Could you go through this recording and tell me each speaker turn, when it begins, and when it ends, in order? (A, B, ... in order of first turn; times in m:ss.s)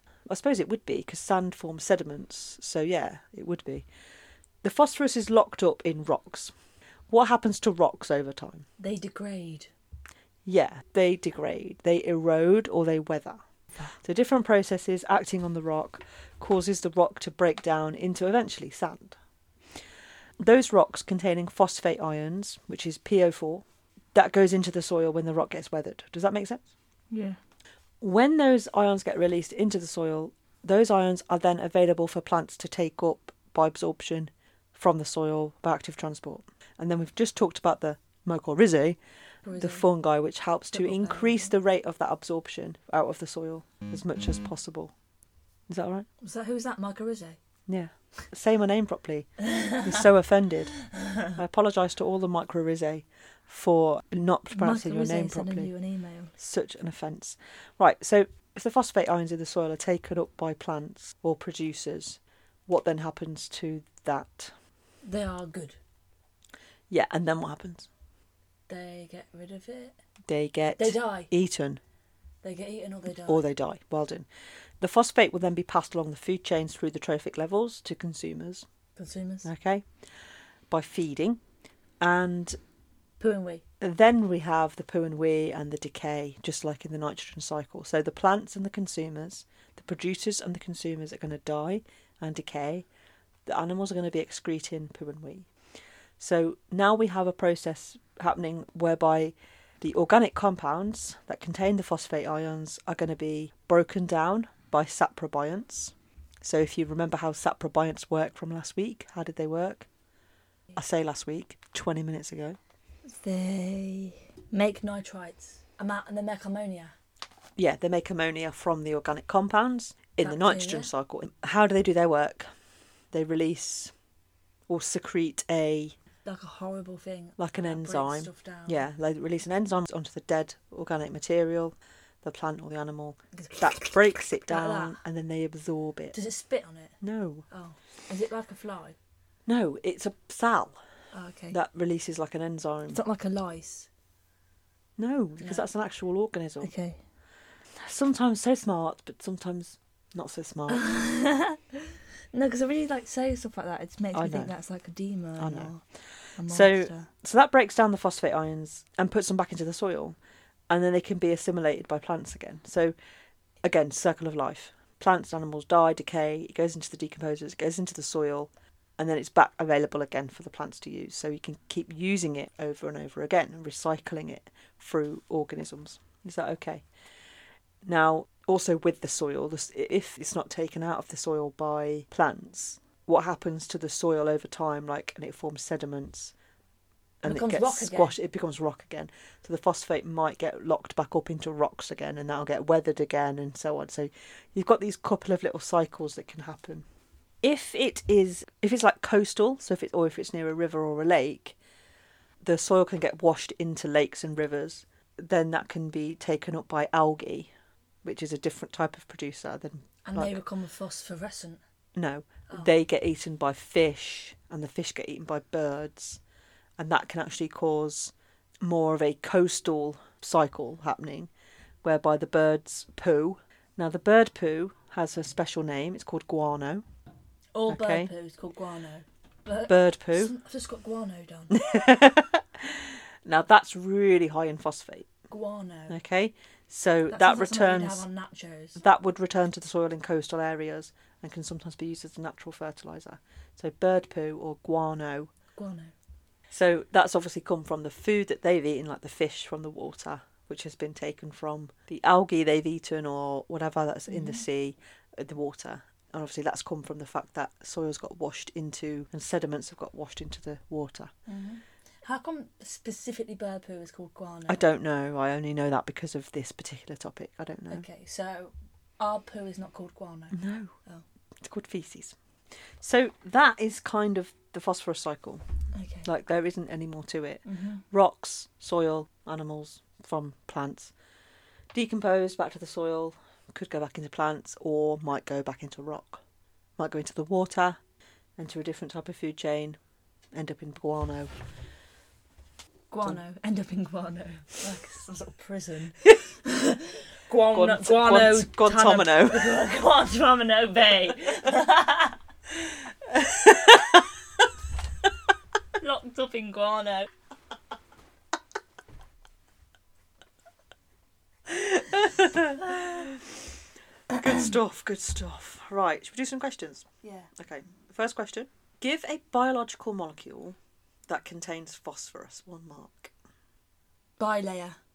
0:00.3-0:03.9 A
0:04.6-0:06.5 A
0:07.1-0:08.6 A
0:08.8-0:09.7 B
0:10.4-0:13.4 A
0:14.0-0:19.2 A
0:20.4-0:26.7 A
0:27.1-0:27.4 B
0:28.0-0:39.0 A
0:39.4-0:39.8 B
0:39.6-0:44.9 A
0:40.7-0:41.5 B
0:45.7-0:46.1 A
0:46.2-0:47.4 B
0:47.7-0:50.7 A
0:49.4-0:50.0 B
0:50.9-0:51.3 B
0:51.3-0:55.7 A
0:54.5-0:56.3 B
0:56.4-1:04.5 A
1:05.0-1:05.8 B
1:06.9-1:07.9 A
1:08.7-1:10.0 B
1:10.3-1:11.8 A
1:10.8-1:11.3 B
1:12.4-1:13.4 B
1:13.3-1:14.3 A
1:14.8-1:18.6 A
1:19.0-1:19.5 B
1:19.4-1:19.8 A
1:20.7-1:21.4 A
1:22.0-1:22.6 A
1:23.2-1:23.6 B
1:23.8-1:32.8 A
1:33.4-1:35.5 A
1:36.2-1:49.9 A
1:50.8-1:52.6 A
1:53.0-1:57.0 B
1:57.6-2:02.5 A
2:00.2-2:00.9 B
2:03.1-2:03.9 A
2:04.7-2:06.0 A
2:06.2-2:08.9 B
2:07.4-2:16.2 A
2:13.3-2:15.0 B
2:16.1-2:17.0 B
2:17.0-2:17.4 A
2:17.5-2:19.0 B
2:19.4-2:20.8 A
2:21.1-2:21.6 B
2:21.5-2:23.0 A
2:22.9-2:23.9 B
2:25.0-2:26.7 A
2:25.4-2:25.7 B
2:26.6-2:27.0 B
2:27.8-2:30.8 A
2:30.7-2:35.8 B
2:34.1-2:34.5 A
2:35.4-2:35.7 A
2:36.4-2:37.1 B
2:36.5-2:40.2 A
2:40.7-2:42.9 A
2:43.6-2:56.8 A
2:57.8-3:06.3 A
3:07.2-3:16.8 A
3:07.2-3:08.2 B
3:17.4-3:21.6 A
3:22.4-3:27.5 A
3:28.0-3:30.4 A
3:30.0-3:31.6 B
3:31.9-3:36.2 A
3:36.8-3:41.3 A
3:41.8-3:46.8 A
3:47.5-3:51.7 B
3:47.7-3:48.1 A
3:49.7-3:50.3 A
3:51.5-3:55.1 A
3:55.3-3:55.9 B
3:55.9-3:58.0 A
3:57.1-3:58.8 B
3:58.8-4:05.3 A
4:05.5-4:05.9 B
4:06.5-4:21.1 A
4:14.1-4:14.4 B
4:21.3-4:24.6 B
4:24.5-4:27.8 A
4:27.7-4:31.0 B
4:30.3-4:30.7 A
4:31.4-4:32.2 A
4:32.8-4:35.4 A
4:35.7-4:36.1 B
4:36.0-4:40.9 A
4:37.4-4:37.8 B
4:41.7-4:46.2 A
4:46.8-4:47.8 A
4:48.4-4:49.8 A
4:50.3-4:51.3 A
4:52.9-5:02.2 B
4:57.3-4:59.6 A
5:03.1-5:04.1 A
5:05.8-5:07.1 B
5:11.5-5:13.4 A
5:14.1-5:23.1 A
5:17.0-5:17.3 B
5:24.2-5:24.8 B